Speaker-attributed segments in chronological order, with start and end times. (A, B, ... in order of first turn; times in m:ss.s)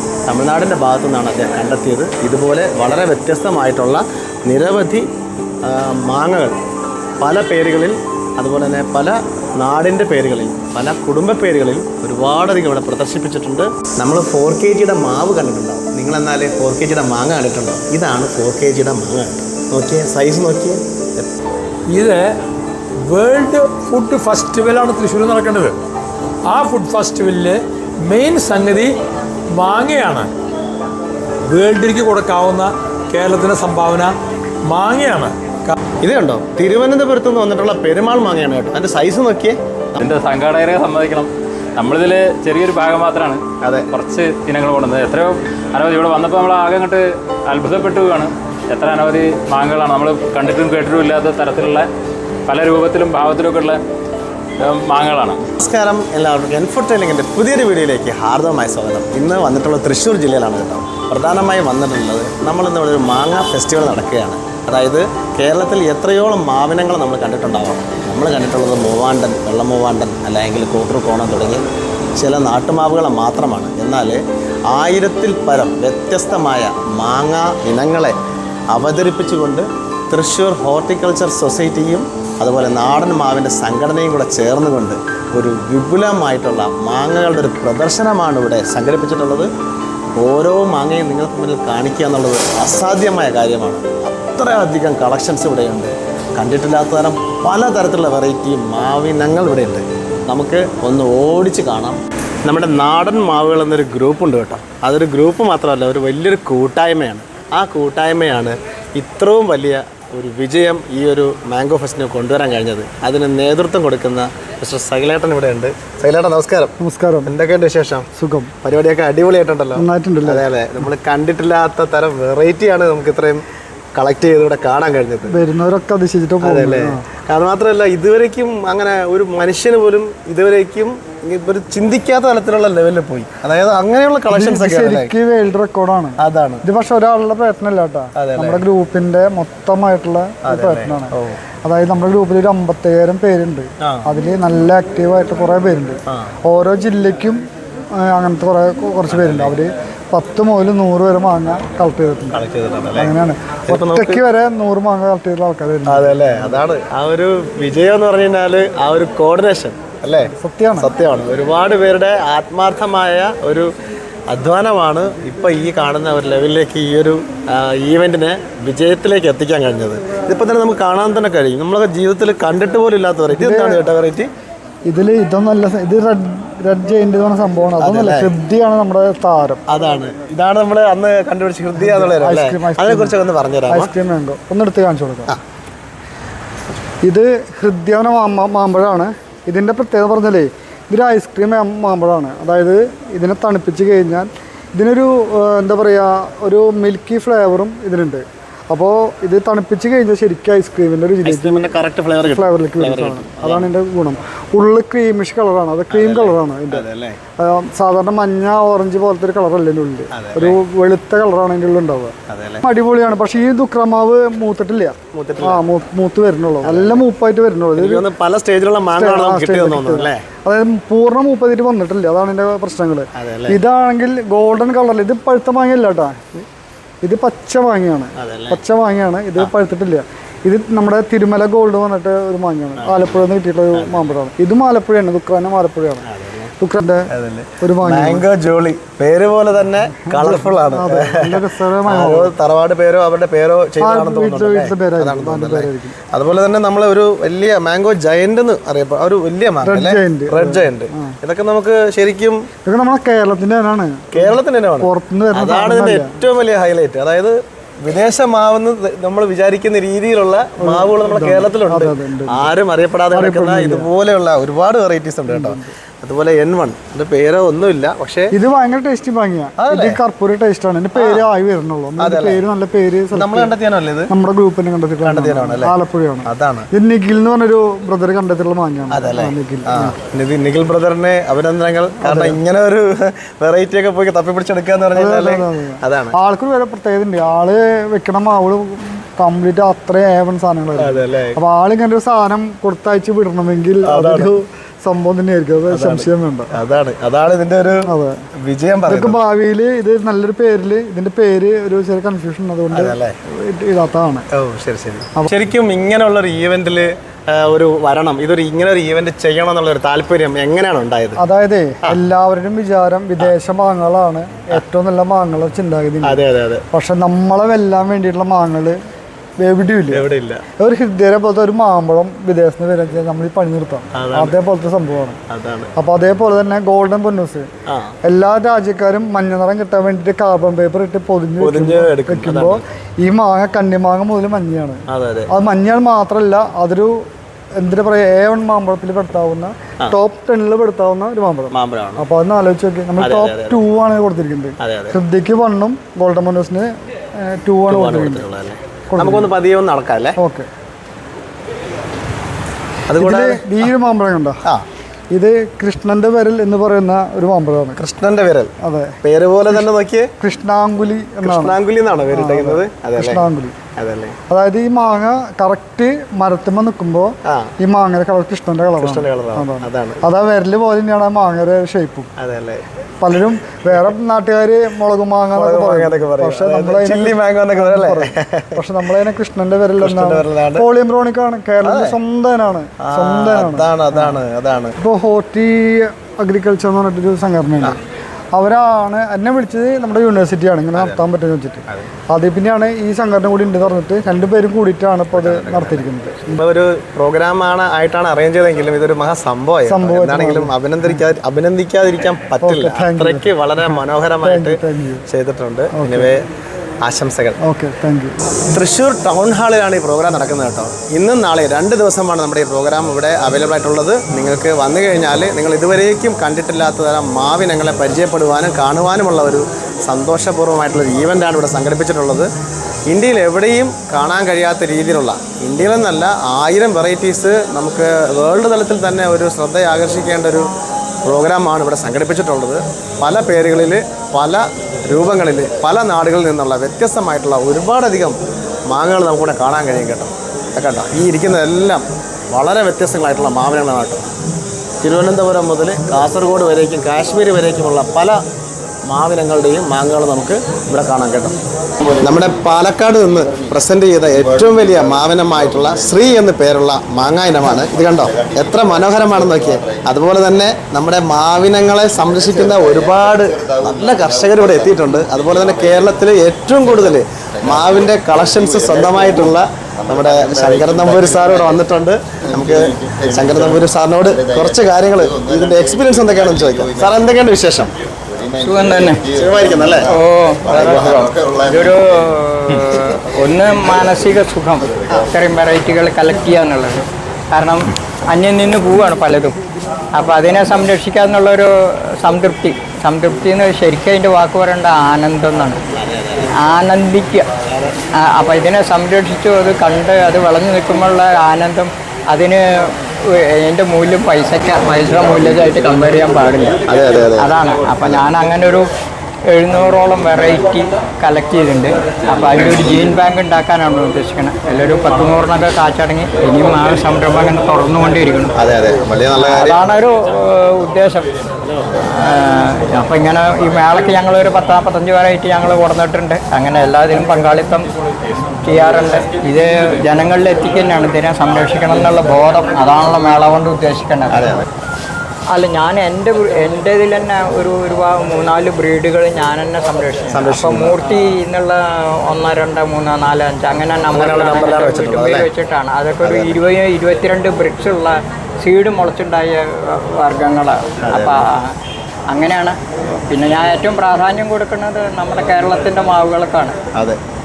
0:00.3-0:05.1 A
0:05.6-0:06.6 A
0:07.2-0:21.3 A
0:23.1-0:23.8 B
0:24.4-0:25.6 B
0:26.5-0:27.2 B
0:28.1-0:28.7 B
0:29.6-0:30.0 B
0:33.2-0:33.8 B
0:34.8-0:35.2 B
0:36.0-0:40.0 A
0:40.0-0:51.9 C
0:43.6-0:43.9 A
0:52.5-0:53.8 C
0:54.6-0:55.4 C
0:55.6-1:11.6 A
1:12.2-1:18.2 A
1:18.7-1:29.5 A
1:30.2-1:56.7 A
1:56.8-1:57.3 D
1:57.3-1:58.1 A
1:58.2-1:58.5 D
1:58.6-2:03.4 A
1:59.8-2:00.5 D
2:04.0-2:05.4 A
2:05.3-2:07.0 D
2:06.4-2:15.1 A
2:14.3-2:27.4 D
2:16.2-2:16.6 A
2:18.2-2:18.6 A
2:20.4-2:21.4 A
2:23.8-2:24.1 A
2:28.0-2:36.6 D
2:29.1-2:29.6 A
2:32.3-2:33.2 A
2:33.7-2:34.2 A
2:35.9-2:43.7 A
2:40.2-2:40.9 D
2:44.3-2:54.3 A
2:53.3-2:53.8 D
2:54.9-2:59.6 D
2:57.8-2:58.3 A
2:59.7-3:03.9 A
3:01.7-3:03.2 D
3:03.7-3:05.3 D
3:07.1-3:21.7 D
3:21.2-3:23.7 A
3:22.3-3:26.9 D
3:25.9-3:27.2 A
3:27.4-3:38.1 D
3:30.1-3:30.6 A
3:32.3-3:32.6 A
3:35.1-3:35.6 A
3:36.6-3:37.0 A
3:37.8-3:40.2 A
3:38.9-3:46.3 D
3:43.2-3:43.6 A
3:47.0-3:56.1 D
3:48.2-3:48.6 A
3:52.8-3:53.2 A
3:53.8-3:54.1 A
3:56.0-3:56.5 A
3:56.6-3:57.1 D
3:57.1-4:12.4 A
3:57.6-3:58.3 D
3:59.9-4:02.4 D
4:03.8-4:06.0 D
4:09.6-4:11.1 D
4:12.7-4:16.2 D
4:14.1-4:28.3 A
4:20.6-4:22.5 D
4:23.1-4:23.9 D
4:25.3-4:25.7 D
4:28.3-4:33.6 D
4:29.6-4:30.0 A
4:31.0-4:31.3 A
4:32.0-4:32.4 A
4:33.1-4:34.1 A
4:34.1-4:40.0 D
4:35.0-4:36.7 A
4:38.9-4:46.2 A
4:42.0-4:42.4 D
4:44.9-4:56.6 D
4:50.8-4:51.4 A
4:53.9-4:54.3 A
4:55.7-4:57.9 A
4:57.8-4:58.2 D
4:58.4-4:59.2 A
4:58.9-5:04.3 D
5:02.7-5:03.1 A
5:04.3-5:11.2 A
5:11.2-5:18.8 D
5:16.0-5:16.6 A
5:19.4-5:20.1 D
5:19.9-5:20.4 A
5:20.6-5:25.2 D
5:23.9-5:24.4 A
5:25.3-5:25.7 A
5:25.8-5:27.5 D
5:27.7-5:27.9 A
5:28.0-5:37.0 D
5:31.4-5:32.6 A
5:34.9-5:35.3 A
5:37.6-5:48.3 D
5:41.5-5:42.0 A
5:43.0-5:43.6 A
5:44.6-5:45.0 A
5:47.7-5:50.2 A
5:48.9-5:49.3 D
5:50.2-5:50.5 D
5:52.9-5:53.7 A
5:53.0-5:54.4 D
5:55.1-5:57.8 D
5:57.8-5:58.5 A
5:58.6-5:59.0 D
5:59.0-6:00.1 A
6:00.2-6:01.6 D
6:01.2-6:03.2 A
6:02.1-6:03.6 D
6:03.8-6:04.2 A
6:04.3-6:12.1 D
6:07.3-6:07.5 A
6:08.8-6:10.0 A
6:12.2-6:12.6 A
6:13.0-6:24.2 D
6:15.4-6:18.6 A
6:19.8-6:20.7 A
6:21.6-6:22.0 A
6:22.8-6:24.8 A
6:24.8-6:27.8 D
6:28.4-6:36.4 D
6:30.8-6:31.0 A
6:35.1-6:46.2 A
6:39.7-6:41.0 D
6:42.4-6:45.0 D
6:45.7-6:46.1 D
6:46.8-6:47.4 A
6:47.4-6:48.2 D
6:48.5-7:02.3 A
7:02.9-7:10.5 A
7:11.0-7:18.2 A
7:18.7-7:24.1 A
7:24.8-7:28.2 A
7:28.9-7:31.4 A
7:32.0-7:57.7 A
7:58.4-7:59.0 E
7:59.1-7:59.9 A
7:59.9-8:09.4 E
8:00.5-8:00.9 A
8:09.9-8:15.6 E
8:15.7-8:16.4 A
8:16.4-8:17.3 E
8:17.5-8:17.8 A
8:18.0-8:26.6 E
8:26.7-8:28.1 A
8:27.2-8:28.7 E
8:29.3-8:38.4 E
8:38.4-8:39.7 A
8:39.2-8:41.1 E
8:41.9-8:47.7 E
8:48.4-8:54.4 E
8:54.1-8:54.4 A
8:55.3-9:11.5 E
9:00.1-9:00.8 A
9:03.9-9:05.3 A
9:06.0-9:06.4 A
9:10.9-9:11.2 A
9:12.1-9:16.6 E